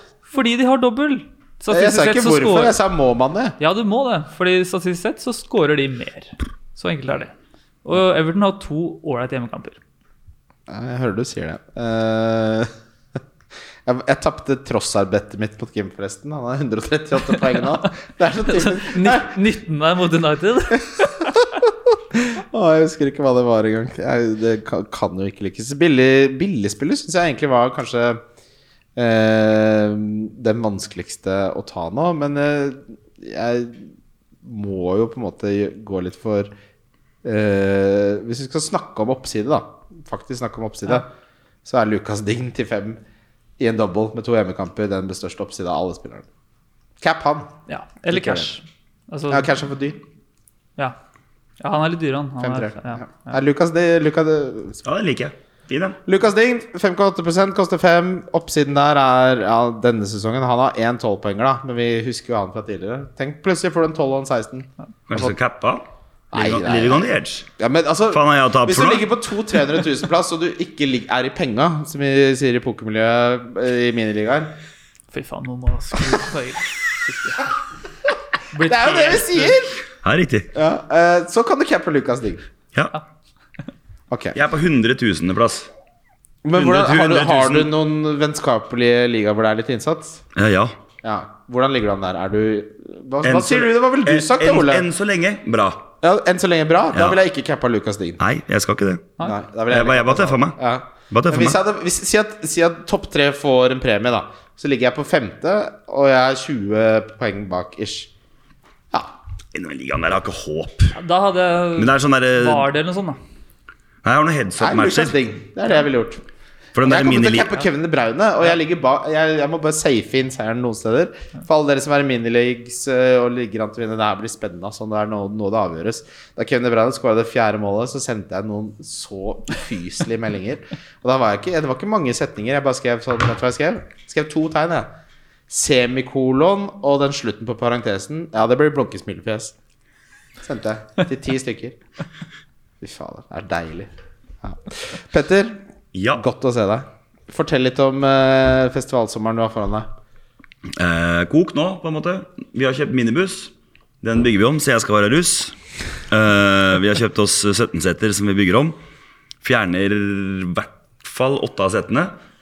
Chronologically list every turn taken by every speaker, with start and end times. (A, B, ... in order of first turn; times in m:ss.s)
0:00.3-0:02.8 A
0:01.7-0:03.6 B
0:03.6-0:09.8 A
0:10.7-0:12.7 B
0:13.8-0:19.4 B
0:18.4-0:21.3 A
0:21.0-0:28.2 B
0:29.0-0:33.9 B
0:34.4-0:36.5 B
0:37.2-0:41.1 B
0:41.6-0:43.0 B
0:43.6-0:46.3 B
0:47.0-0:47.5 B
0:47.7-0:49.5 A
0:48.1-0:48.5 B
0:49.3-0:50.0 B
0:51.6-0:53.3 A
0:52.4-0:54.8 B
0:54.9-0:56.0 C
0:56.0-1:05.3 B
1:05.1-1:07.5 C
1:06.3-1:14.6 B
1:08.1-1:09.0 C
1:15.1-1:17.4 A
1:18.5-1:19.6 A
1:18.6-1:19.8 B
1:20.0-1:20.5 C
1:20.5-1:22.4 B
1:24.1-1:24.4 B
1:24.4-1:25.7 C
1:26.4-1:30.2 B
1:26.5-1:27.7 C
1:30.4-1:30.8 C
1:31.0-1:34.9 B
1:33.2-1:35.9 C
1:36.0-1:38.2 B
1:36.9-1:37.2 C
1:38.2-1:39.1 C
1:39.2-1:48.1 B
1:39.7-1:40.6 C
1:41.1-1:41.6 C
1:49.5-1:51.0 C
1:51.0-1:53.2 A
1:51.8-1:52.7 C
1:54.0-1:55.2 C
1:54.6-1:56.2 B
1:56.7-1:57.5 C
1:56.8-2:14.9 B
2:15.5-2:19.6 B
2:20.4-2:21.8 B
2:22.8-2:23.9 B
2:24.4-2:25.6 B
2:25.9-2:26.2 C
2:26.1-2:29.9 B
2:30.7-2:35.6 C
2:36.1-2:38.8 C
2:39.4-2:42.2 C